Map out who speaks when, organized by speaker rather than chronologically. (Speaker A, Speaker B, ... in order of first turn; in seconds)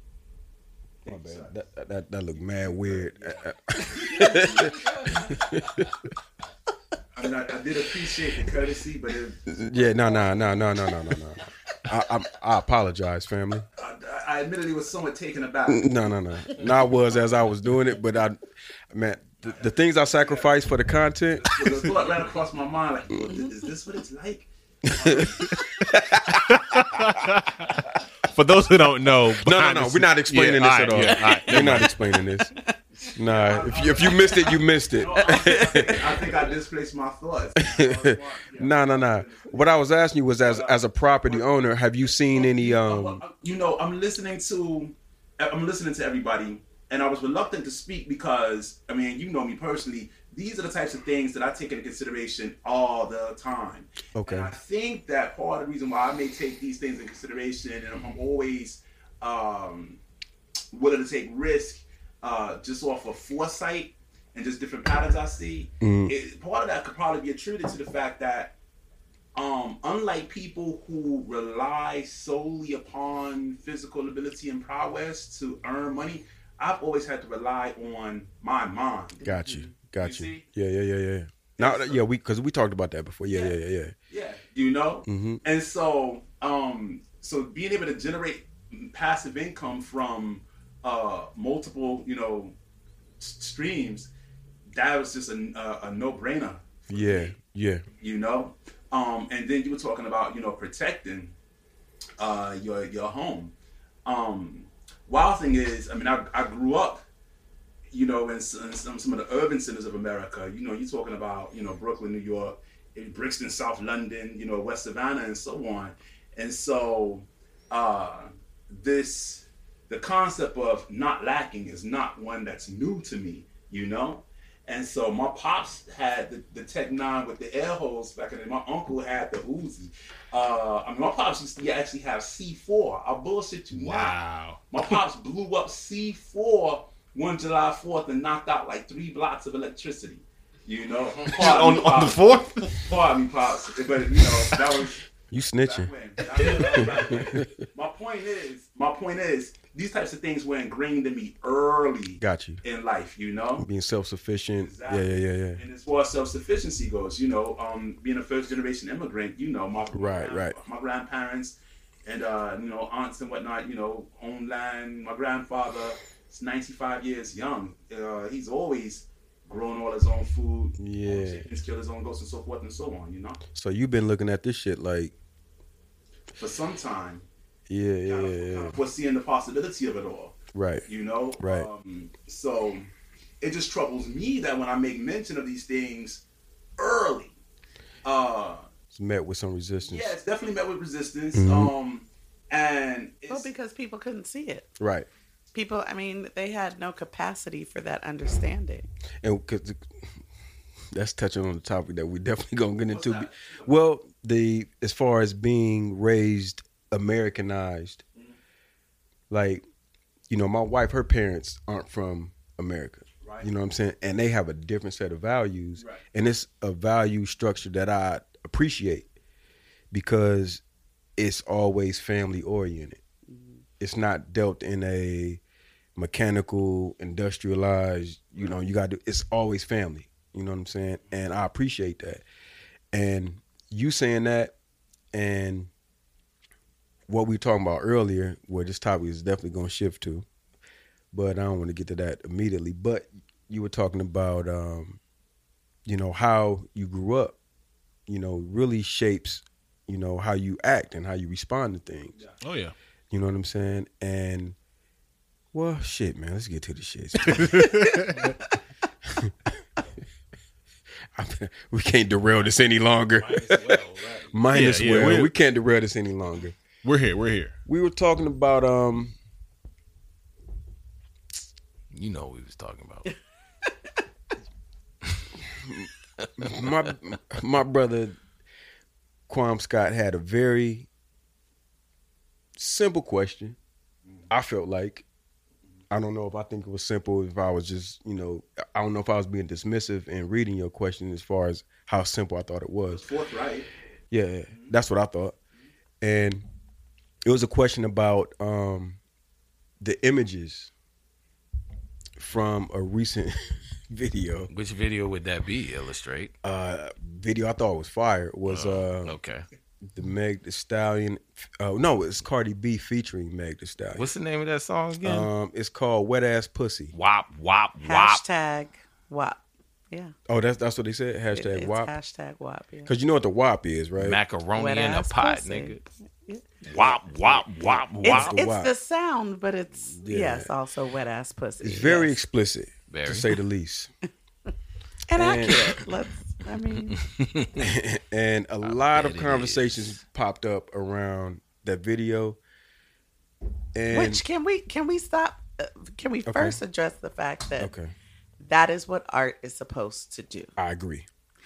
Speaker A: 1.0-1.5, 2.3-5.4, 7.1-10.7, 13.8-15.9, 19.4-20.6, 21.4-25.4, 33.1-39.7, 40.4-41.5, 42.2-60.0, 60.7-68.5, 69.3-79.4, 80.0-80.4, 81.6-82.0, 83.3-83.6, 84.1-92.5, 93.2-94.1, 94.7-97.3, 98.0-101.3, 102.2-103.5, 104.0-107.0, 107.9-134.2, 134.7-145.0, 145.6-153.7, 154.6-173.4, 176.4-177.2, 178.1-186.2, 186.8-187.3, 188.0-188.7, 189.8-193.5, 202.9-203.7, 215.8-216.0, 292.9-293.7
Speaker B: 1.1-5.9, 9.4-13.7, 15.7-21.6, 24.9-27.1, 29.3-32.5, 33.1-36.5, 37.6-43.2, 54.1-54.5, 65.8-66.1, 79.2-83.9, 85.0-85.4, 96.9-97.8, 145.3-145.9, 146.5-147.6, 152.2-152.6, 153.6-155.6, 159.9-160.6, 170.8-171.5, 173.5-175.2, 177.7-178.8, 180.5-180.8, 181.4-181.7, 188.9-190.1, 191.3-191.7, 194.8-195.1, 199.2-199.8, 200.9-208.0, 209.3-209.6, 210.3-219.1, 219.9-220.6, 221.2-223.0, 223.8-225.4, 225.9-232.2, 232.9-234.5, 235.1-235.7, 237.1-240.2, 241.1-245.0, 245.8-247.4, 248.1-252.2, 253.1-254.6, 255.5-258.2, 261.1-266.6, 267.6-269.1, 275.6-278.2, 279.3-280.9, 282.6-283.6, 284.3-285.0, 285.9-293.0, 294.1-295.3, 296.0-296.4, 297.2-299.0, 299.8-300.7, 302.2-304.5, 306.4-309.1, 309.9-314.1, 315.0-316.9, 320.3-321.9, 322.9-324.2, 328.0-328.7, 329.9-330.5, 331.6-333.9, 335.1-335.8, 337.6-342.4, 343.7-344.2, 346.2-346.6, 347.6-347.9, 350.6-351.1
Speaker C: 26.3-31.9, 133.7-135.0, 141.2-142.9, 144.3-144.6, 146.4-146.8, 252.4-252.7, 257.2-258.3, 263.4-265.3, 266.8-267.5
Speaker D: 35.1-35.9, 79.3-79.7, 193.3-194.7, 195.5-198.9, 317.8-319.4, 321.3-322.9, 324.5-326.5, 328.0-332.1, 335.1-337.0, 343.9-347.7, 348.4-350.5
Speaker E: 271.9-273.1, 304.5-306.3, 308.4-309.4, 313.9-315.3, 316.9-318.2, 324.0-325.8, 326.6-328.3, 332.9-333.3, 337.0-337.6, 338.6-340.0